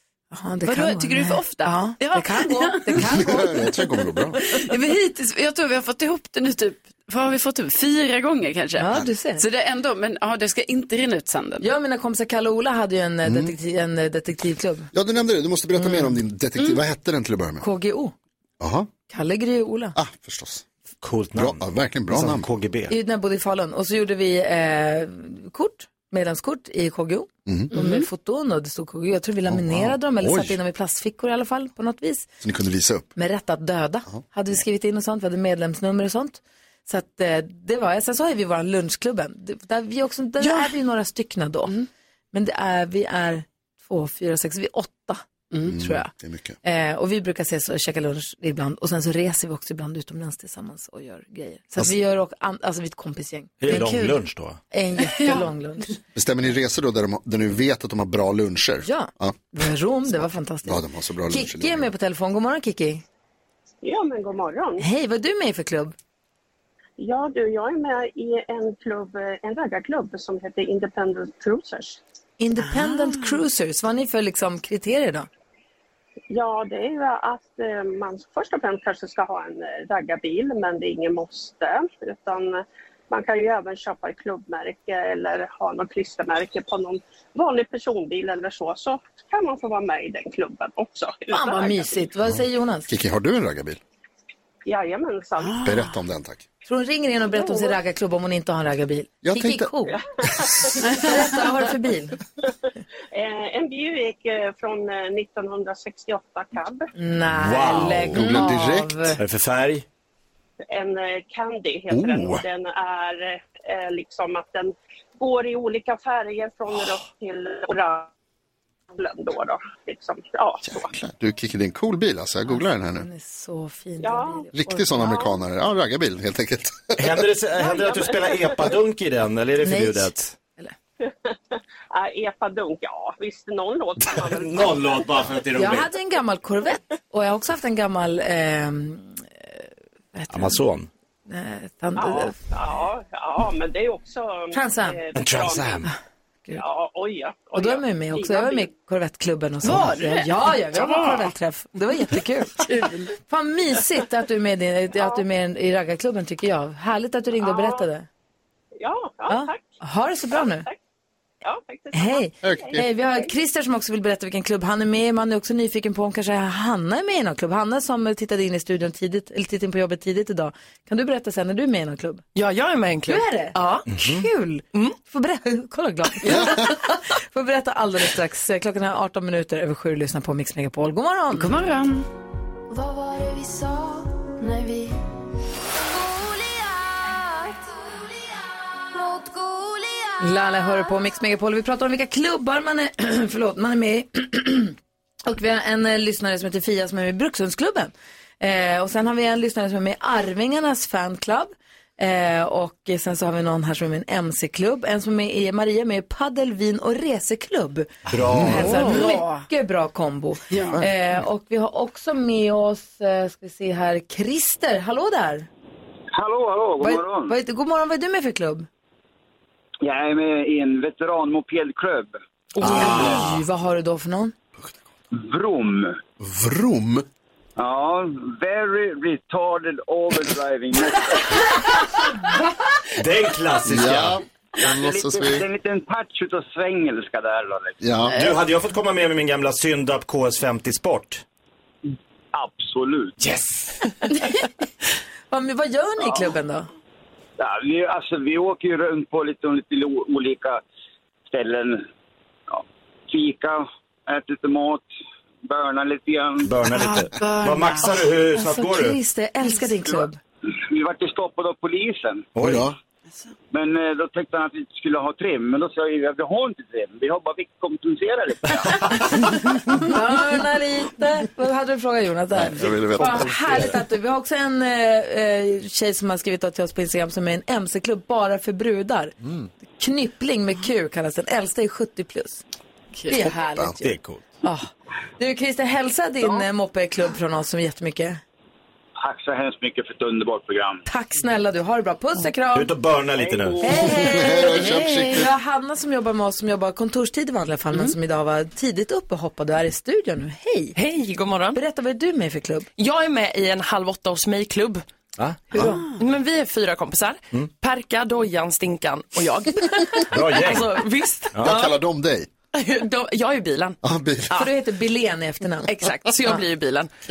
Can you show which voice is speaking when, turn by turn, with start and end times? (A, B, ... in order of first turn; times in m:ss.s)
0:00.3-0:03.7 A
0:00.7-0:03.1 B
0:03.1-0:04.4 C
0:04.4-0:11.7 B
0:08.8-0:09.4 A
0:11.6-0:14.9 A
0:13.3-0:13.5 C
0:14.9-0:17.6 C
0:17.6-0:18.1 A
0:18.6-0:18.9 C
0:19.1-0:20.0 A
0:20.0-0:20.6 C
0:21.0-0:22.9 D
0:21.4-0:22.5 C
0:22.9-0:32.3 A
0:27.5-0:27.7 C
0:27.7-0:28.1 B
0:29.5-0:30.6 C
0:32.4-0:33.1 C
0:33.2-0:41.7 A
0:40.4-0:40.7 B
0:42.3-0:46.1 A
0:45.7-0:46.6 C
0:46.6-0:56.0 A
0:53.6-0:54.6 D
0:56.2-0:59.4 C
0:58.9-1:03.0 A
1:00.6-1:01.9 C
1:03.8-1:04.8 E
1:04.8-1:06.0 A
1:07.0-1:12.0 E
1:12.4-1:15.3 A
1:16.3-1:32.0 E
1:31.3-1:32.9 A
1:32.3-1:33.8 C
1:34.7-1:35.6 E
1:35.5-1:36.0 B
1:35.6-1:36.5 C
1:36.7-1:40.0 A
1:37.3-1:37.8 E
1:39.2-1:39.9 C
1:39.9-1:41.0 E
1:40.7-1:42.2 A
1:43.1-1:46.9 E
1:47.0-1:49.2 A
1:47.3-1:48.6 D
1:48.1-1:49.2 C
1:49.2-1:49.8 D
1:50.7-1:58.1 E
1:51.9-1:52.4 C
1:58.9-2:00.9 E
2:00.8-2:03.1 C
2:02.5-2:05.2 A
2:04.0-2:04.4 E
2:04.5-2:07.1 C
2:05.0-2:05.3 E
2:07.0-2:10.3 D
2:07.6-2:08.7 E
2:09.6-2:10.8 A
2:11.0-2:15.1 E
2:14.2-2:15.9 D
2:15.6-2:20.6 A
2:20.3-2:20.9 D
2:21.3-2:22.4 A
2:22.0-2:25.8 E
2:24.5-2:25.0 A
2:25.1-2:25.9 D
2:26.5-2:28.7 E
2:27.6-2:38.1 A
2:37.4-2:37.8 E
2:38.8-2:39.8 E
2:39.3-2:40.7 A
2:40.4-2:40.7 E
2:41.4-2:43.3 E
2:41.9-2:52.2 A
2:42.4-2:42.8 C
2:52.4-2:53.9 F
2:53.1-3:01.5 A
2:53.9-2:54.3 D
3:01.3-3:02.1 B
3:02.7-3:04.9 G
3:05.9-3:08.4 G
3:08.9-3:10.2 G
3:10.2-3:35.5 A
3:28.1-3:29.0 D
3:28.2-3:28.7 C
3:28.8-3:29.4 B
3:30.5-3:30.8 B
3:36.1-3:37.4 H
3:36.8-3:38.7 A
3:39.8-3:42.1 H
3:42.6-3:44.3 A
3:42.6-3:43.4 D
3:45.1-3:46.0 H
3:46.2-3:47.1 C
3:47.6-3:51.5 H
3:53.0-3:54.2 D
3:53.6-3:55.4 C
3:54.6-3:57.8 H
3:57.8-3:58.1 C
3:58.1-4:01.2 D
4:02.3-4:03.2 H
4:03.2-4:03.9 D
4:04.1-4:04.5 A
4:05.3-4:06.7 A
4:07.4-4:10.6 H
4:11.3-4:11.8 H
4:12.5-4:14.8 H
4:15.5-4:16.5 H
4:16.4-4:19.0 D
4:16.7-4:18.0 B
4:18.4-4:20.2 A
4:20.6-4:22.3 H
4:22.4-4:22.7 D
4:22.4-4:22.7 C
4:23.5-4:29.2 H
4:29.8-4:39.1 A
4:32.3-4:33.8 C
4:39.2-4:39.5 C
4:39.8-4:42.4 A
4:43.1-4:48.2 A
4:43.8-4:44.2 D
4:49.0-4:50.8 H
4:50.9-4:52.7 A
4:52.5-4:53.9 D
4:53.2-4:53.6 H
4:53.6-5:00.8 A
4:53.9-4:55.3 C
5:00.8-5:01.6 F
5:01.5-5:02.7 A
5:02.8-5:04.8 F
5:05.5-5:05.9 A
5:06.0-5:11.7 F
5:10.1-5:10.8 D
5:11.3-5:11.7 D
5:11.4-5:12.3 C
5:12.5-5:13.8 F
5:13.8-5:14.5 C
5:14.4-5:15.7 A
5:15.6-5:16.9 F